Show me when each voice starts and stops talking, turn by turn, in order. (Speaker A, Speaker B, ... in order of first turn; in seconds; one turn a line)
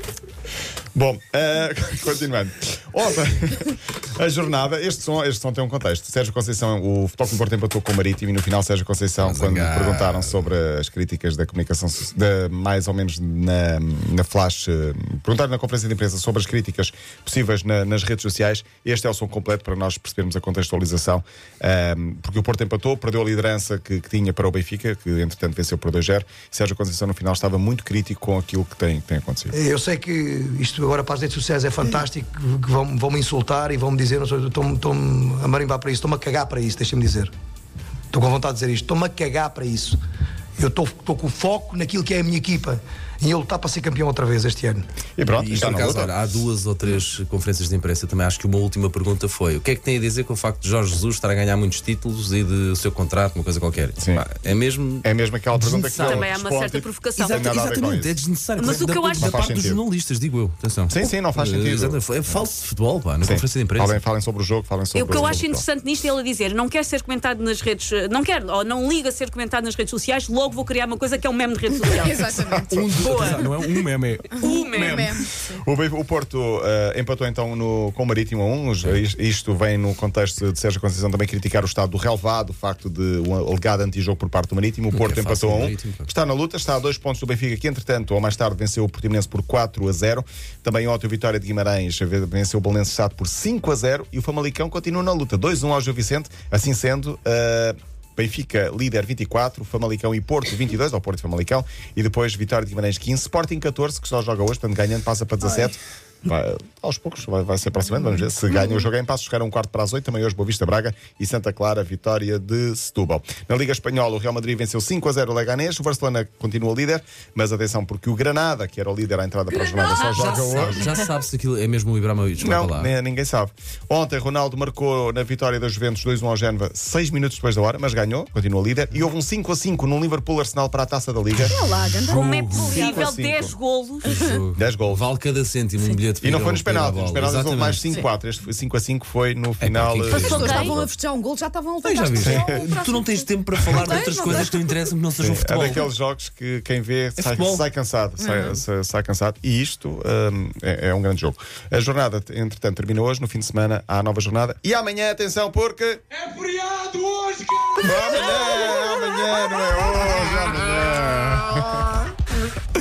Speaker A: 0.9-29.5
Speaker B: 9.2-10.4
Speaker C: 29.5-37.3
Speaker C: 38.1-40.0
Speaker C: 40.6-44.8
Speaker A: 45.2-46.2
Speaker B: 45.5-56.3
Speaker A: 54.0-54.3
Speaker A: 55.0-58.2
Speaker D: 55.9-57.4
Speaker B: 57.2-64.0
Speaker D: 58.6-59.5
Speaker A: 59.2-59.8
Speaker A: 60.9-62.4
Speaker A: 63.2-65.7
Speaker D: 64.9-73.5
Speaker E: 71.9-73.4
Speaker B: 72.7-75.0
Speaker F: 73.1-74.0
Speaker D: 74.3-75.2
Speaker E: 74.4-75.6
Speaker A: 75.6-120.8
Speaker B: 84.9-86.1
Speaker E: 119.6-120.8
Speaker B: 120.2-122.9
Speaker F: 120.4-121.1
Speaker A: 122.4-131.5
Speaker E: 131.4-133.1
Speaker B: 132.0-132.8
Speaker D: 132.1-134.2
Speaker A: 132.6-133.6
Speaker E: 134.1-134.4
Speaker B: 134.1-137.9
Speaker A: 134.6-135.1
Speaker A: 136.2-140.7
Speaker B: 139.6-140.8
Speaker E: 140.1-142.6
Speaker D: 140.3-140.8
Speaker B: 141.8-145.8
Speaker A: 142.2-142.7
Speaker D: 142.3-143.3
Speaker E: 143.8-144.7
Speaker A: 145.2-156.0
Speaker B: 147.2-147.6
Speaker E: 148.2-148.6
Speaker F: 156.3-157.6
Speaker A: 157.8-162.0